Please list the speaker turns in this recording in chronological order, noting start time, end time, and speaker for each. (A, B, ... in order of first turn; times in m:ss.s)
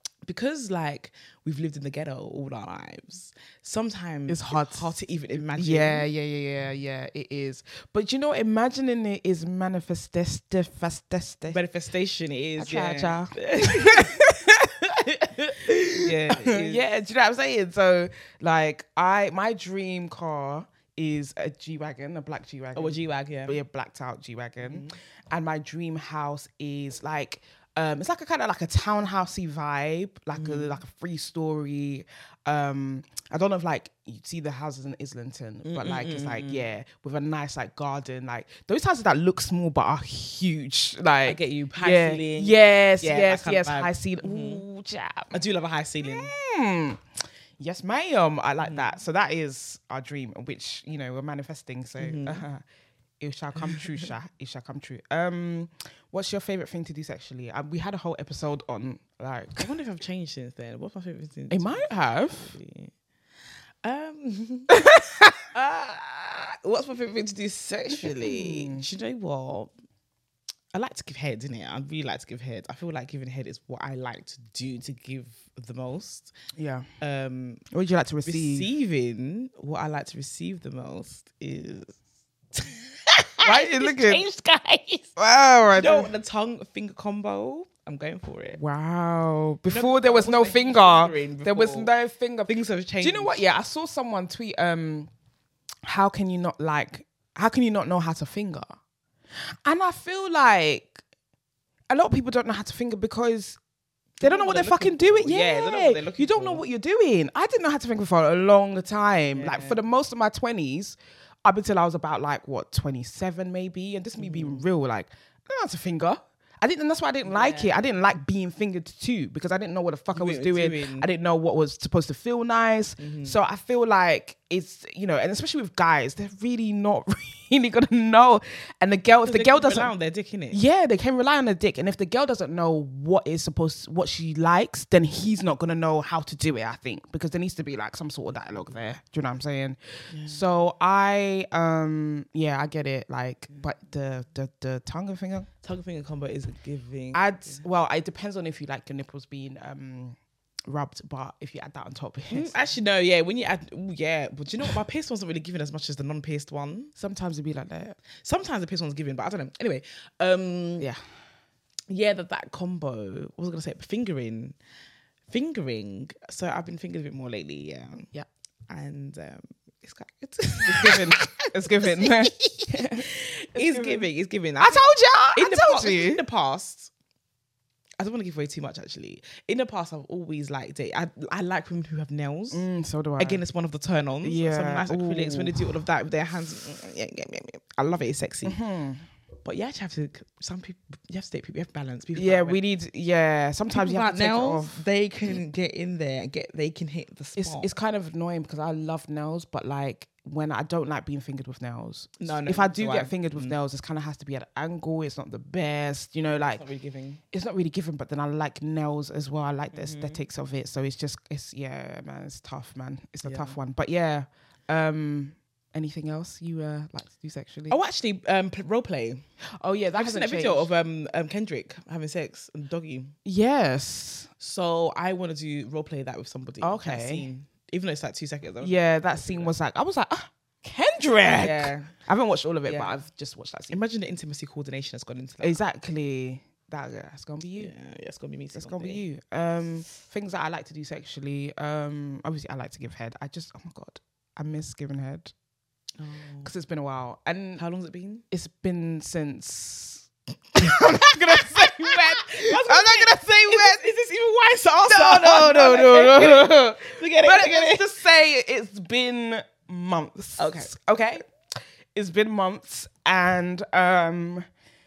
0:00.2-0:06.0 A
0:04.3-0:11.6 B
0:11.5-0:14.2 A
0:12.6-0:45.4 B
0:16.0-0:16.8 A
0:22.7-0:23.6 A
0:24.6-0:25.0 A
0:30.4-0:30.8 A
0:35.6-0:36.7 A
0:41.3-0:44.6 A
0:45.3-0:46.3 A
0:46.0-0:47.0 B
0:47.6-0:52.6 B
0:48.6-0:49.0 A
0:52.0-0:52.4 A
0:53.2-0:59.7 B
0:59.6-1:02.9 A
1:01.5-1:02.5 B
1:03.8-1:04.7 A
1:04.7-1:05.4 B
1:05.5-1:09.7 A
1:08.1-1:08.9 B
1:10.7-1:16.3 A
1:16.5-1:16.9 B
1:17.0-1:17.6 A
1:17.7-1:18.7 B
1:18.2-1:22.0 A
1:22.5-1:25.1 A
1:23.4-1:24.3 B
1:25.2-1:26.1 B
1:25.7-1:28.6 A
1:28.5-1:35.1 B
1:29.7-1:31.9 A
1:32.5-1:33.4 A
1:35.8-1:38.7 B
1:39.6-1:41.0 B
1:41.9-1:43.6 B
1:44.2-1:46.6 A
1:44.2-2:09.9 B
1:49.3-1:49.8 A
1:54.2-1:54.7 A
1:57.2-1:57.8 A
2:00.1-2:01.1 A
2:03.0-2:03.4 A
2:09.2-2:10.6 A
2:10.5-2:25.5 B
2:20.1-2:20.4 A
2:25.6-2:27.6 A
2:27.1-2:32.6 B
2:32.3-2:36.9 A
2:37.0-2:38.0 B
2:38.2-2:40.9 A
2:40.8-2:41.1 B
2:41.9-2:44.6 A
2:45.3-2:48.1 A
2:48.7-2:56.9 A
2:50.6-2:56.2 B
2:58.0-3:02.6 A
3:02.5-3:03.4 B
3:03.2-3:08.6 A
3:04.2-3:05.8 B
3:08.4-3:09.1 B
3:09.4-3:12.6 A
3:12.2-3:14.9 B
3:13.7-3:17.7 A
3:17.4-3:26.6 B
3:22.2-3:23.6 A
3:26.3-3:27.2 A
3:27.3-3:37.8 B
3:29.7-3:30.2 A
3:33.2-3:33.6 A
3:37.7-3:39.2 A
3:39.6-3:40.7 B
3:39.9-3:43.2 A
3:43.2-3:44.3 B
3:44.4-3:49.5 A
3:46.6-3:47.3 B
3:48.6-3:53.8 B
3:51.3-3:51.9 A
3:52.7-3:53.0 A
3:53.7-3:55.6 A
3:55.4-3:57.7 B
3:57.6-3:59.0 A
3:58.5-4:05.3 B
4:06.0-4:06.5 A
4:06.4-4:07.6 B
4:07.6-4:08.2 A
4:08.3-4:13.8 B
4:10.6-4:17.9 A
4:14.9-4:21.2 B
4:20.4-4:20.7 A
4:21.9-4:24.5 B